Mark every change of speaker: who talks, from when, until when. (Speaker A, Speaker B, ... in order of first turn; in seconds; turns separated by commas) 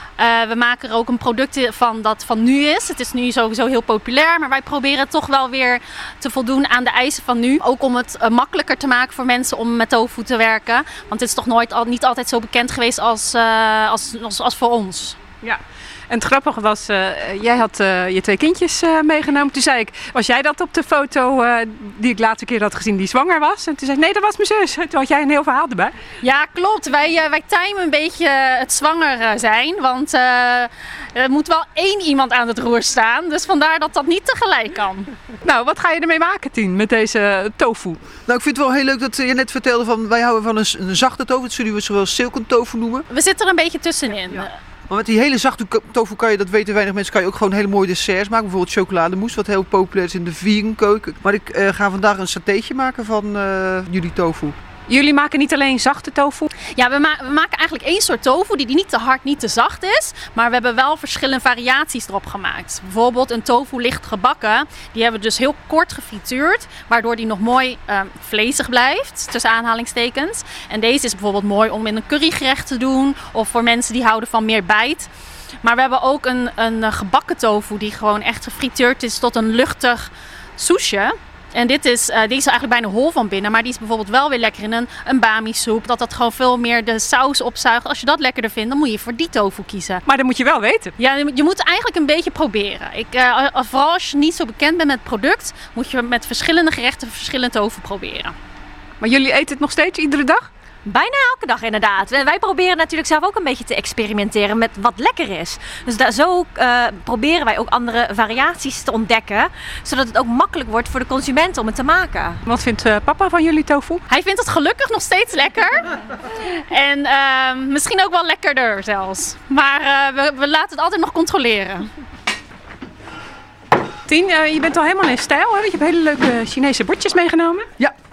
Speaker A: 0.2-15.2, Speaker B: 15.4-25.9, Speaker A: 26.2-35.1, Speaker B: 35.5-38.0, Speaker C: 38.3-43.1, Speaker A: 43.1-44.6, Speaker C: 44.9-54.6, Speaker B: 54.9-56.5, Speaker A: 56.8-75.1, Speaker A: 75.6-90.0, Speaker B: 90.1-90.9, Speaker A: 91.0-98.3, Speaker B: 99.0-100.5, Speaker D: 100.9-112.4, Speaker B: 112.5-114.0, Speaker A: 114.1-115.8, Speaker A: 116.7-121.9, Speaker B: 124.1-127.7